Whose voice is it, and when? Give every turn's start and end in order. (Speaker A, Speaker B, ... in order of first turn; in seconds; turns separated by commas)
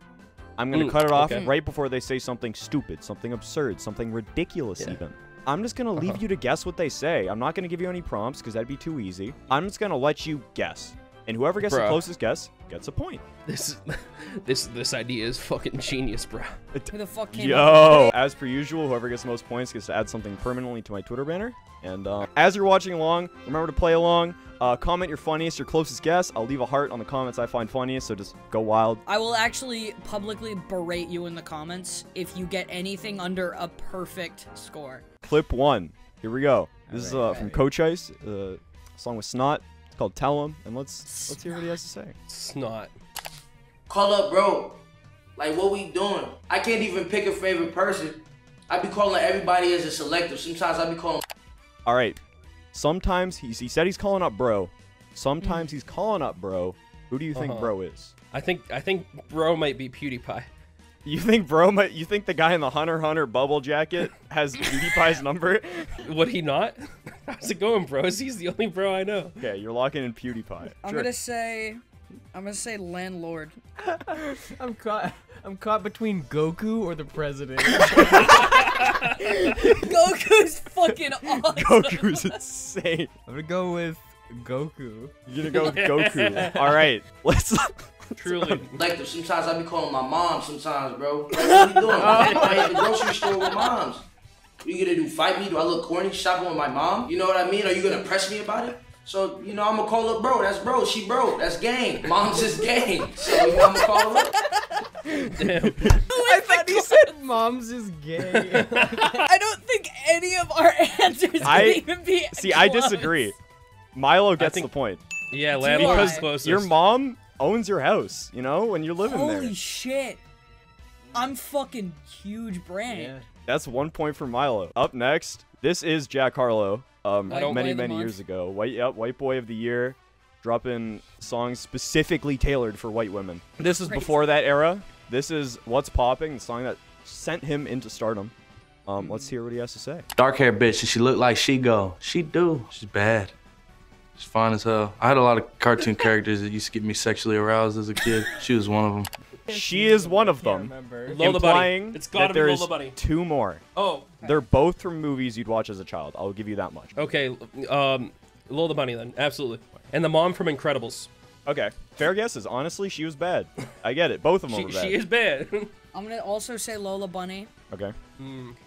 Speaker A: 0.6-13.2, Speaker B: 0.7-1.5, Speaker B: 11.6-12.0, Speaker B: 13.5-16.6, Speaker A: 16.7-29.0, Speaker C: 16.9-18.2, Speaker C: 29.1-35.0, Speaker A: 35.2-42.1, Speaker D: 36.9-37.7, Speaker C: 41.0-41.8, Speaker B: 42.3-42.9, Speaker E: 43.9-44.8, Speaker E: 45.4-51.2, Speaker A: 51.9-52.2, Speaker A: 52.7-58.1, Speaker C: 55.4-55.7, Speaker B: 57.3-57.7, Speaker B: 58.3-60.5, Speaker A: 61.0-66.0, Speaker B: 66.0-69.4, Speaker A: 69.4-71.1, Speaker C: 70.8-71.8, Speaker C: 72.3-73.5, Speaker D: 73.8-78.3, Speaker B: 77.9-79.0, Speaker C: 78.3-78.6, Speaker C: 79.2-82.3, Speaker A: 81.2-83.1, Speaker D: 83.3-85.1, Speaker A: 85.2-88.6, Speaker B: 85.5-86.5, Speaker D: 86.3-86.8, Speaker B: 88.2-88.8, Speaker E: 88.8-94.0, Speaker B: 91.4-93.0, Speaker D: 92.0-92.5, Speaker E: 94.6-104.3, Speaker C: 103.2-104.8, Speaker B: 105.3-106.0, Speaker C: 106.0-107.1, Speaker D: 106.2-109.2, Speaker B: 108.3-109.0, Speaker C: 109.1-113.3, Speaker A: 111.4-113.3, Speaker A: 113.9-115.0, Speaker B: 114.4-114.7, Speaker B: 115.3-116.8, Speaker C: 115.5-116.3, Speaker A: 115.7-119.5, Speaker C: 119.0-120.2, Speaker C: 121.1-123.2, Speaker D: 122.9-123.2, Speaker A: 123.5-138.3, Speaker C: 127.3-128.2, Speaker B: 127.3-127.7, Speaker C: 133.6-134.2, Speaker A: 138.8-140.1, Speaker C: 139.0-139.3, Speaker F: 140.2-143.3, Speaker F: 144.2-149.1, Speaker D: 149.5-151.2, Speaker A: 149.5-153.6, Speaker B: 151.1-153.0, Speaker B: 153.8-154.1, Speaker C: 154.2-154.5, Speaker A: 154.2-156.9, Speaker B: 156.9-161.1, Speaker A: 161.4-165.0, Speaker B: 164.5-165.7, Speaker C: 165.9-167.5, Speaker B: 168.2-168.6